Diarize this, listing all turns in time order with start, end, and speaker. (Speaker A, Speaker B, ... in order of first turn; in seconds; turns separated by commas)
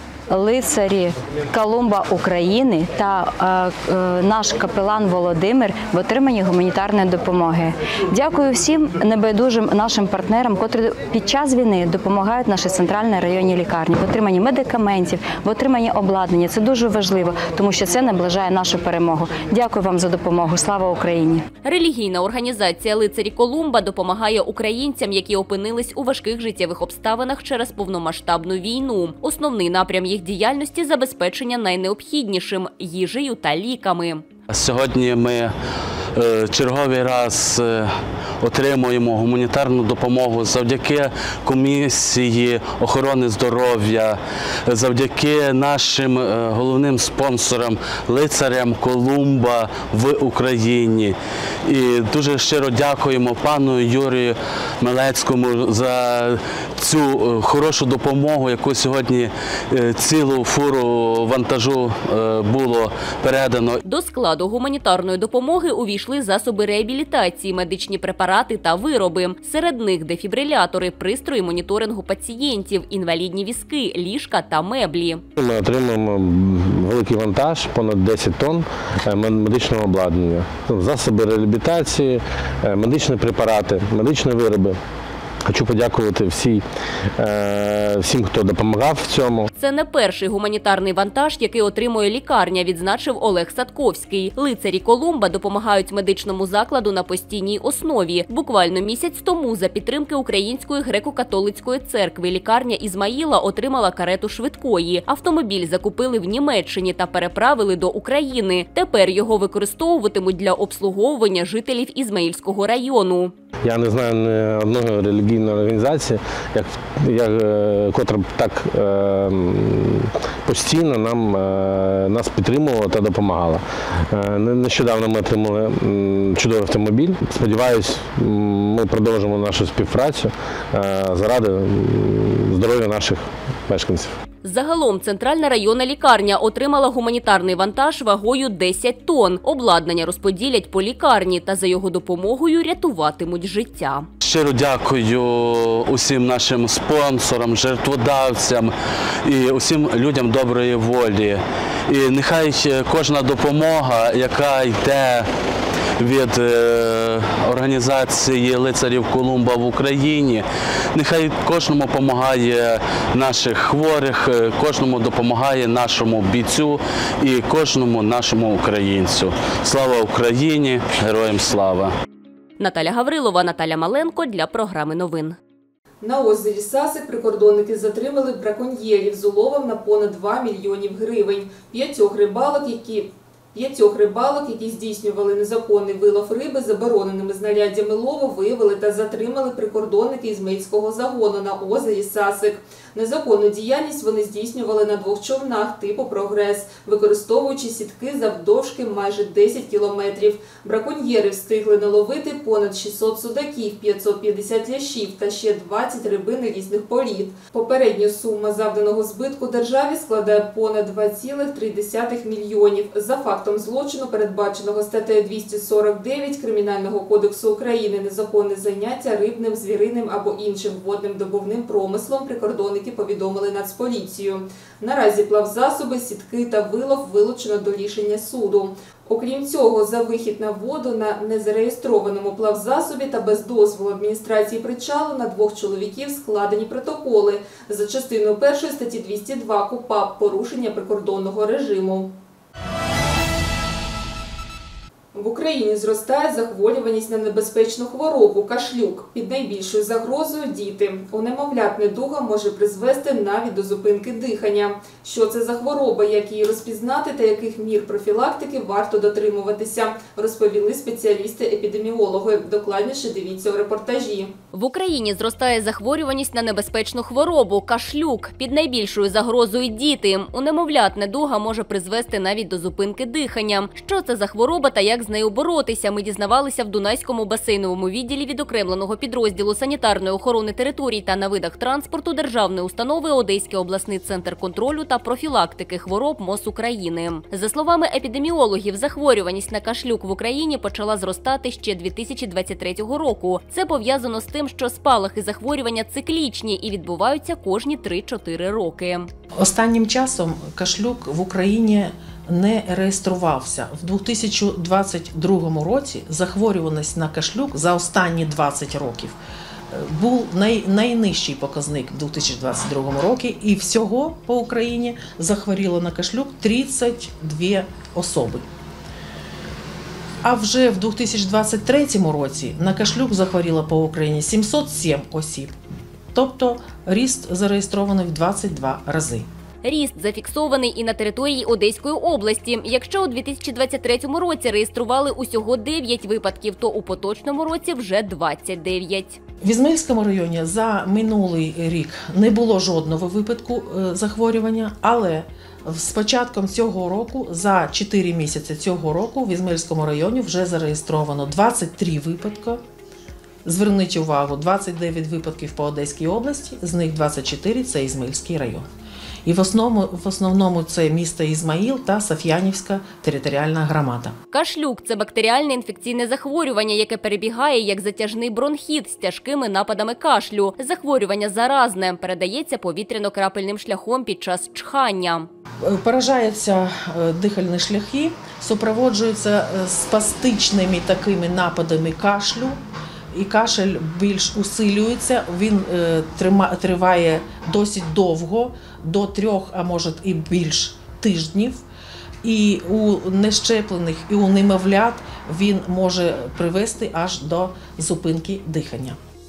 Speaker A: 0.3-21.4, Speaker B: 21.6-34.2, Speaker C: 34.5-35.5, Speaker C: 36.1-63.8, Speaker B: 63.9-75.2, Speaker D: 75.4-84.8, Speaker D: 85.5-86.6, Speaker D: 87.2-89.5, Speaker B: 89.6-113.3, Speaker D: 113.7-134.1, Speaker B: 134.4-144.1, Speaker C: 144.2-148.7, Speaker C: 149.2-155.3, Speaker C: 156.0-171.9, Speaker B: 172.6-175.4, Speaker E: 176.0-242.1, Speaker E: 245.1-264.3, Speaker B: 264.5-299.1, Speaker F: 299.4-309.2, Speaker F: 309.7-318.4, Speaker F: 320.2-325.5, Speaker F: 326.1-329.3, Speaker B: 329.6-339.2, Speaker F: 339.4-352.6, Speaker F: 353.4-358.6, Speaker F: 359.2-364.1, Speaker B: 364.3-375.3, Speaker F: 375.6-382.6, Speaker F: 383.1-391.6, Speaker F: 392.2-399.0